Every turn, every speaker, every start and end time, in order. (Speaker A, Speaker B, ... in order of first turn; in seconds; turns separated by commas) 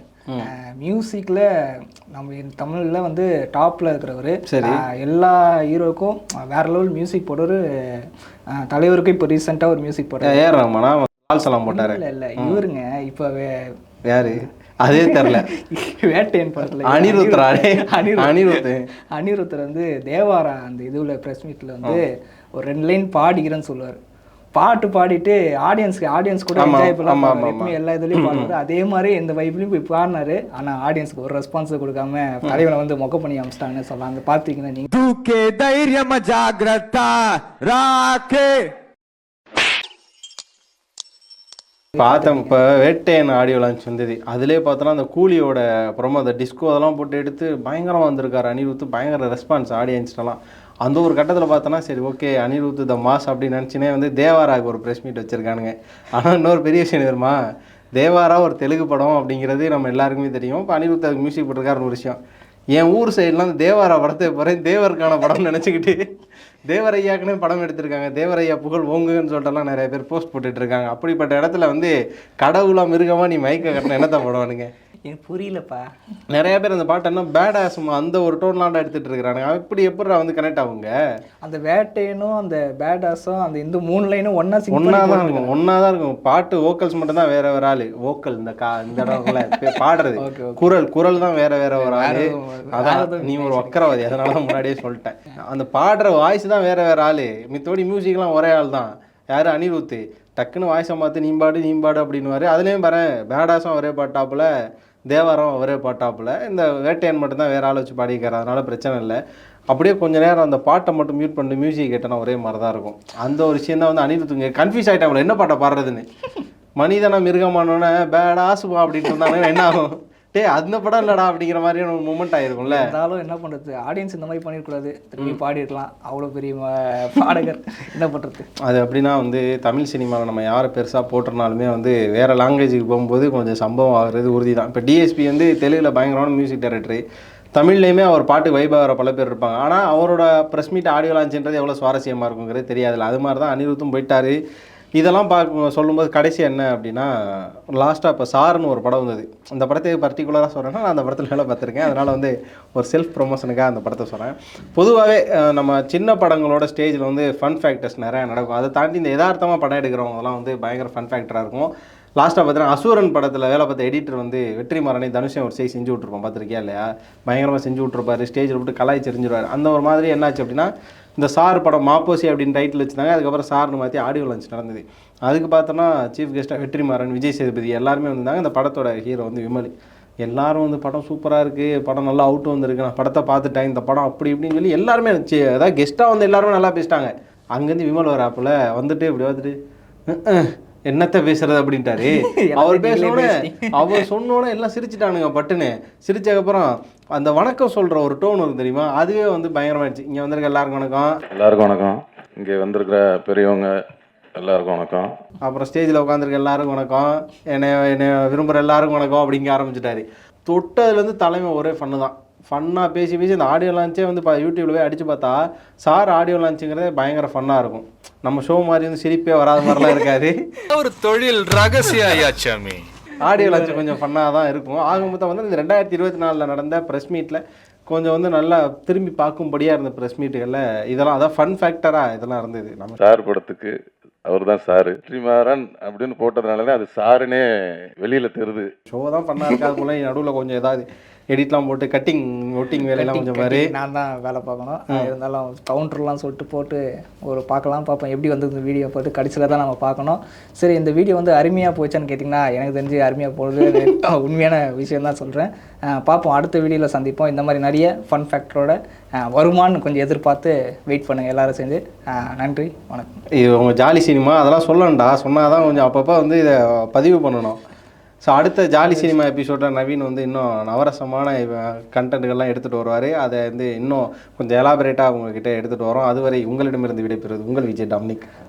Speaker A: 0.4-10.4, Speaker B: 4.5-4.8, Speaker B: 10.2-12.6, Speaker A: 11.7-13.7, Speaker B: 14.1-15.5, Speaker A: 14.9-24.0, Speaker B: 16.8-18.9, Speaker A: 24.5-34.9, Speaker B: 26.6-28.5, Speaker C: 34.9-38.7, Speaker A: 42.0-42.5, Speaker B: 42.0-57.4, Speaker B: 58.0-62.2, Speaker B: 62.7-66.0, Speaker B: 66.7-74.7, Speaker A: 75.0-75.8, Speaker B: 76.3-80.9, Speaker A: 81.4-85.5, Speaker B: 84.7-104.5, Speaker A: 89.0-89.3, Speaker A: 90.2-90.7, Speaker A: 91.8-94.1, Speaker B: 105.1-109.2, Speaker B: 109.7-116.0, Speaker B: 116.8-122.9, Speaker A: 122.6-128.4, Speaker B: 128.6-137.0, Speaker B: 137.5-144.4, Speaker B: 145.0-179.7, Speaker B: 180.2-189.5, Speaker B: 190.1-201.1, Speaker A: 192.0-194.0, Speaker D: 201.3-203.7, Speaker D: 204.4-205.1, Speaker B: 205.4-220.3, Speaker E: 220.7-222.8, Speaker B: 223.2-233.0, Speaker A: 223.3-223.8, Speaker D: 233.0-233.7, Speaker D: 234.2-237.4, Speaker D: 238.0-238.7, Speaker B: 238.9-243.7, Speaker A: 242.9-263.2, Speaker B: 253.6-253.9, Speaker B: 263.4-267.6, Speaker B: 268.3-278.3, Speaker A: 268.9-269.1